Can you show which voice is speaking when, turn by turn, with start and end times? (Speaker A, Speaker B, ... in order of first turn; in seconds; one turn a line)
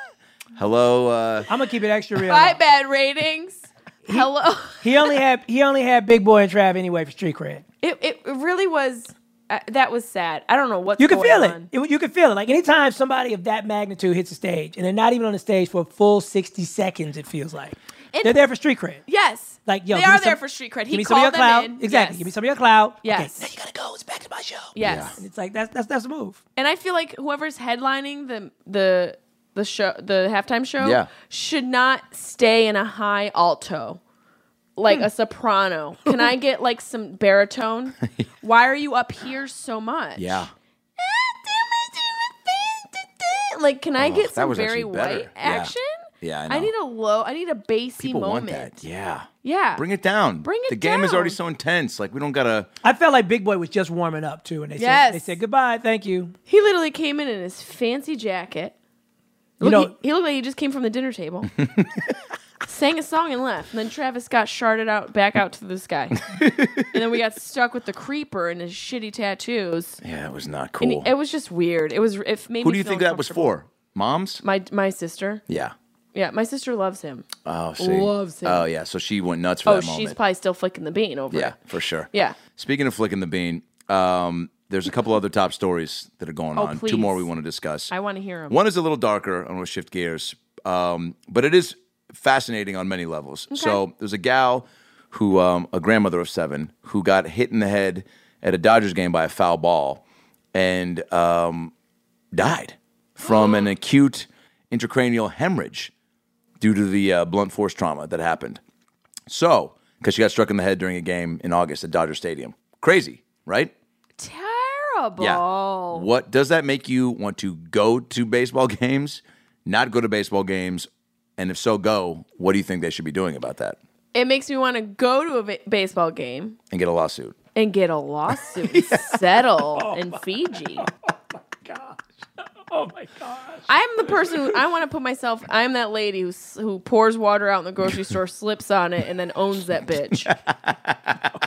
Speaker A: 0.6-1.5
Speaker B: 1.5-2.6
Speaker C: 2.2-5.2
Speaker B: 4.1-7.6
Speaker C: 7.8-11.7
Speaker B: 11.0-19.0
Speaker C: 18.1-18.4
Speaker C: 19.1-22.3
Speaker B: 19.7-26.4
Speaker C: 23.0-23.5
Speaker C: 24.8-25.2
Speaker A: 24.8-25.1
Speaker C: 26.6-34.0
Speaker A: 30.8-31.1
Speaker C: 34.8-40.5
Speaker A: 40.2-40.5
Speaker C: 41.0-48.8
Speaker A: 44.0-46.7
Speaker A: 48.0-52.7
Speaker C: 49.4-49.8
Speaker C: 50.4-51.4
Speaker B: 52.8-56.4
Speaker C: 54.8-55.4
Speaker C: 56.5-58.7
Speaker C: 59.6-61.5
Speaker B: 59.6-59.9
Speaker C: 62.7-66.2
Speaker A: 66.3-66.9
Speaker C: 66.9-70.0
Speaker A: 70.0-71.1
Speaker C: 70.8-73.5
Speaker A: 72.6-74.4
Speaker C: 74.4-75.4
Speaker A: 75.5-75.7
Speaker C: 76.1-77.3
Speaker A: 77.5-80.2
Speaker C: 77.8-78.7
Speaker C: 79.7-81.6
Speaker A: 81.3-87.9
Speaker C: 82.1-82.4
Speaker C: 86.5-87.3
Speaker C: 87.9-88.6
Speaker A: 88.5-100.0
Speaker C: 93.5-93.8
Speaker A: 100.5-101.7
Speaker A: 102.3-105.9
Speaker C: 103.2-103.7
Speaker A: 106.6-108.6
Speaker A: 109.3-113.7
Speaker C: 114.2-116.1
Speaker A: 115.2-123.8
Speaker C: 124.1-126.6
Speaker A: 126.7-127.4
Speaker C: 127.5-130.9
Speaker B: 129.8-130.2
Speaker B: 130.8-132.0
Speaker B: 132.7-133.7
Speaker C: 133.7-140.3
Speaker A: 140.3-141.2